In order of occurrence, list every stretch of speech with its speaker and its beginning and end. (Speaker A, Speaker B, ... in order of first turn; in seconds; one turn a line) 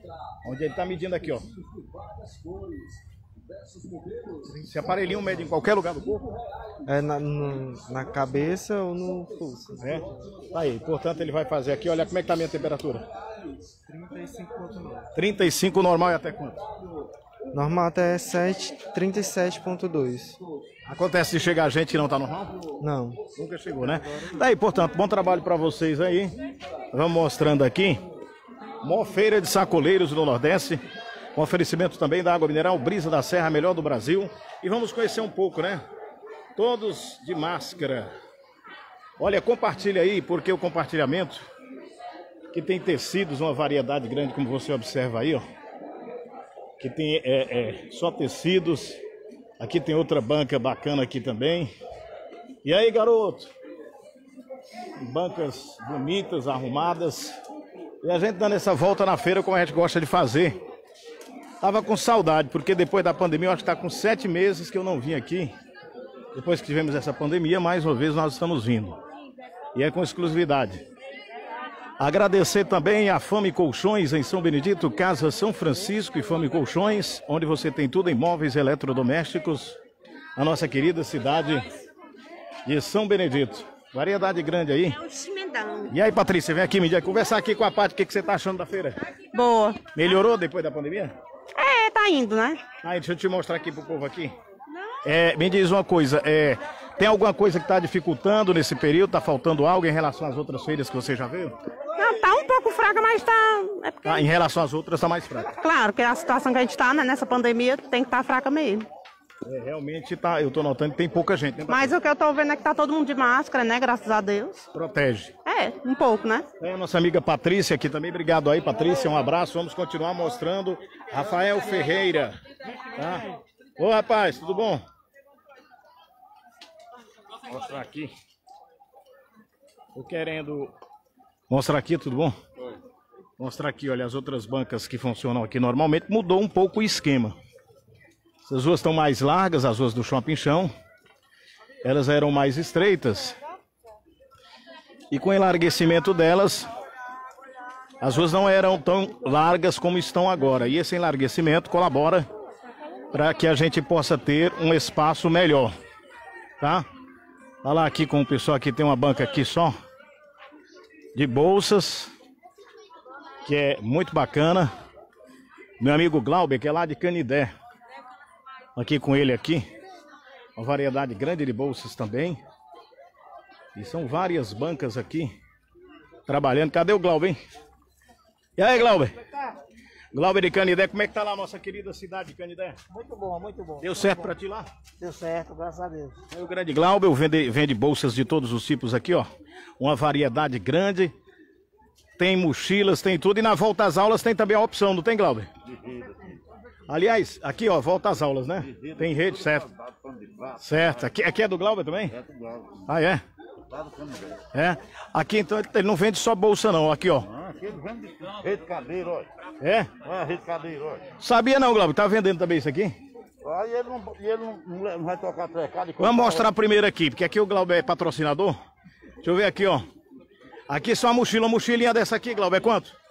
Speaker A: 0.5-1.5
Speaker A: 4.6-6.3
Speaker B: 6.9-10.0
Speaker A: 9.8-13.1
Speaker B: 13.9-15.1
Speaker A: 15.2-16.6
Speaker B: 17.5-20.4
Speaker A: 20.9-22.5
Speaker B: 22.8-23.2
Speaker A: 23.4-26.3
Speaker A: 26.9-28.0
Speaker A: 28.8-30.8
Speaker A: 31.4-35.8
Speaker A: 36.6-38.1
Speaker A: 39.2-41.5
Speaker A: 42.5-45.4
Speaker A: 46.8-49.0
Speaker A: 49.6-51.7
Speaker A: 52.6-53.5
Speaker A: 55.0-57.4
Speaker A: 58.0-60.6
Speaker A: 61.6-65.5
Speaker A: 66.3-69.0
Speaker A: 69.8-70.8
Speaker A: 72.0-79.8
Speaker A: 80.4-81.7
Speaker A: 82.7-85.0
Speaker C: 85.1-85.9
Speaker A: 85.9-89.0
Speaker C: 89.3-89.8
Speaker A: 90.0-91.2
Speaker C: 91.5-92.6
Speaker A: 92.8-94.3
Speaker A: 95.0-101.5
Speaker C: 102.0-104.3
Speaker A: 104.0-105.5
Speaker C: 105.6-108.9
Speaker A: 109.5-112.0
Speaker C: 111.7-114.6
Speaker A: 114.7-115.3
Speaker C: 115.5-116.5
Speaker A: 116.6-122.4
Speaker A: 123.0-123.2
Speaker A: 123.8-124.8
Speaker A: 127.5-128.1
Speaker A: 129.9-130.7
Speaker A: 131.5-132.3
Speaker A: 133.4-137.3
Speaker A: 138.5-140.7
Speaker A: 141.8-143.4
Speaker A: 145.1-146.7
Speaker A: 148.0-152.3
Speaker A: 153.1-155.7
Speaker A: 156.6-156.8
Speaker A: 157.6-159.7
Speaker A: 161.2-162.1
Speaker A: 163.4-164.7
Speaker A: 165.8-167.5
Speaker A: 168.8-169.7
Speaker A: 170.6-172.4
Speaker A: 173.8-175.3
Speaker A: 176.3-177.4
Speaker A: 178.6-179.2
Speaker A: 180.1-182.8
Speaker D: 182.9-184.3
Speaker A: 183.8-184.7
Speaker D: 185.0-186.2
Speaker A: 186.3-189.3
Speaker A: 189.8-191.1
Speaker A: 192.2-195.5
Speaker A: 196.9-199.7
Speaker A: 200.6-202.2
Speaker A: 202.9-203.2
Speaker E: 203.8-204.3
Speaker A: 204.5-207.3
Speaker E: 207.5-209.3
Speaker A: 209.6-209.9
Speaker E: 210.1-211.0
Speaker A: 211.2-212.9
Speaker E: 213.5-216.3
Speaker A: 216.0-218.6
Speaker A: 219.2-219.8
Speaker A: 220.7-222.9